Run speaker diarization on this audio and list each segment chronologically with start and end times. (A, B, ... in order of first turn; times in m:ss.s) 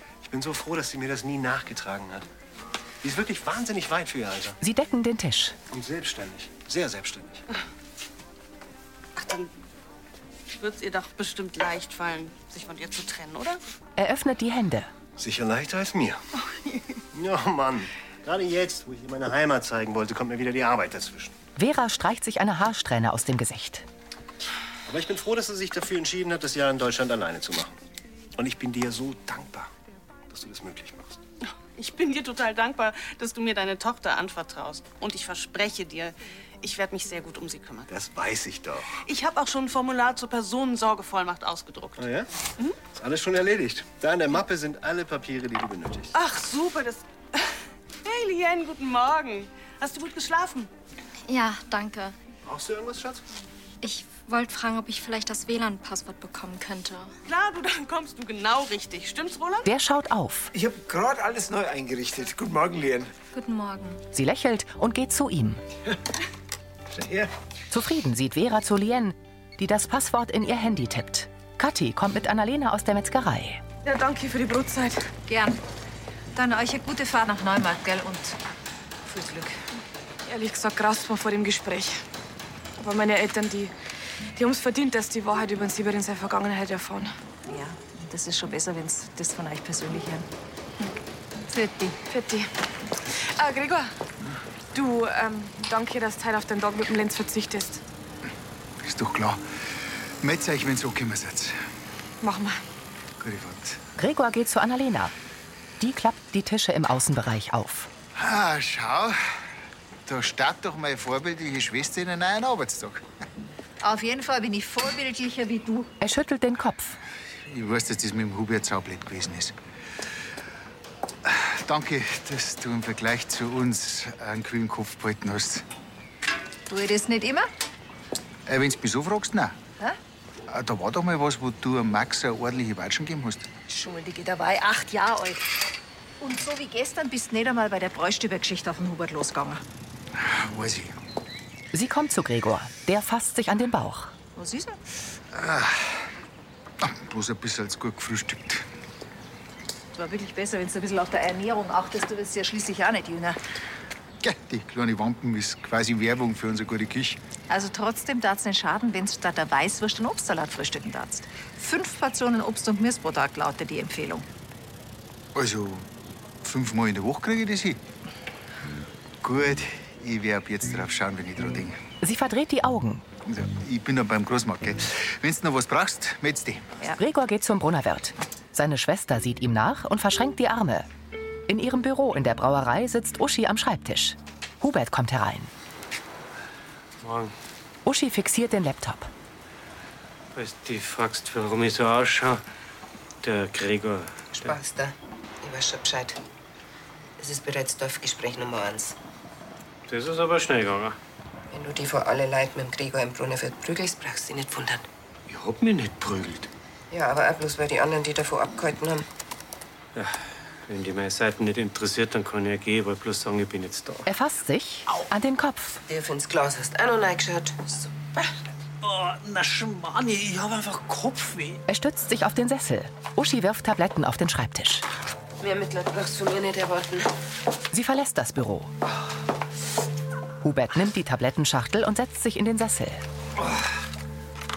0:00.2-0:02.3 A
0:03.0-0:04.6 A
0:04.6-0:05.6 B
0:05.7-0:07.4 A
0:09.2-0:09.5 C
0:10.6-0:13.6 C
0:14.0-0:14.9 B
0:15.2-0:16.2 A
0:17.1-0:21.3 A
0:21.6-0:23.9 B
0:24.9-0:27.7 A
0:28.4-0:29.7 A
0:30.3-0:31.2 A
0:31.4-0:37.9 C
0:37.9-0:38.9 A
0:39.0-0:42.0 C
0:42.0-0:42.3 A
0:42.9-0:46.1 A
0:46.1-0:47.5 C
0:48.0-0:50.7 C
0:51.3-0:52.2 D
0:52.4-0:53.3 A
0:53.8-0:57.1 D
0:57.3-0:59.7 C
0:59.6-1:00.5 B
1:00.5-1:03.1 E
1:03.3-1:04.0 D
1:04.1-1:05.6 B
1:07.0-1:07.3 E
1:07.7-1:13.6 B
1:13.8-1:15.0 C
1:15.3-1:15.6 F
1:16.4-1:18.4 F
1:19.1-1:19.6 F
1:20.3-1:22.0 G
1:22.8-1:23.7 G
1:24.4-1:27.1 G
1:27.5-1:30.3 F
1:31.5-1:32.0 F
1:32.1-1:32.5 G
1:33.2-1:33.9 G
1:34.7-1:37.8 G
1:38.8-1:39.4 H
1:40.2-1:41.6 H
1:42.2-1:42.6 G
1:43.2-1:43.8 H
1:44.0-1:45.1 B
1:45.8-1:47.9 B
1:48.2-1:49.2 H
1:50.1-1:53.0 H
1:53.8-1:55.9 F
1:56.0-1:57.0 B
1:57.5-1:59.6 H
2:01.2-2:05.6 H
2:06.7-2:07.5 F
2:08.5-2:09.6 H
2:10.5-2:13.5 H
2:13.7-2:15.4 F
2:16.2-2:19.6 F
2:20.2-2:21.0 H
2:21.7-2:24.1 B
2:24.4-2:24.8 F
2:25.3-2:26.0 H
2:26.8-2:28.7 H
2:30.0-2:33.4 F
2:34.2-2:37.2 H
2:37.5-2:44.3 F
2:45.4-2:45.9 H
2:46.4-2:47.8 H
2:49.2-2:51.8 H
2:52.0-2:53.1 B
2:53.2-2:56.7 H
2:57.0-3:00.9 B
3:01.5-3:05.5 B
3:07.0-3:07.3 I
3:07.9-3:09.1 B
3:10.3-3:12.4 I
3:13.2-3:14.5 I
3:14.3-3:16.2 J
3:17.2-3:19.0 J
3:19.9-3:21.0 I
3:21.5-3:24.9 J
3:25.3-3:26.5 I
3:26.9-3:29.1 J
3:30.0-3:34.0 I
3:34.1-3:35.8 B
3:35.9-3:38.3 J
3:38.8-3:41.6 K
3:41.7-3:44.8 B
3:45.4-3:47.1 J
3:47.7-3:48.7 B
3:50.4-3:53.0 B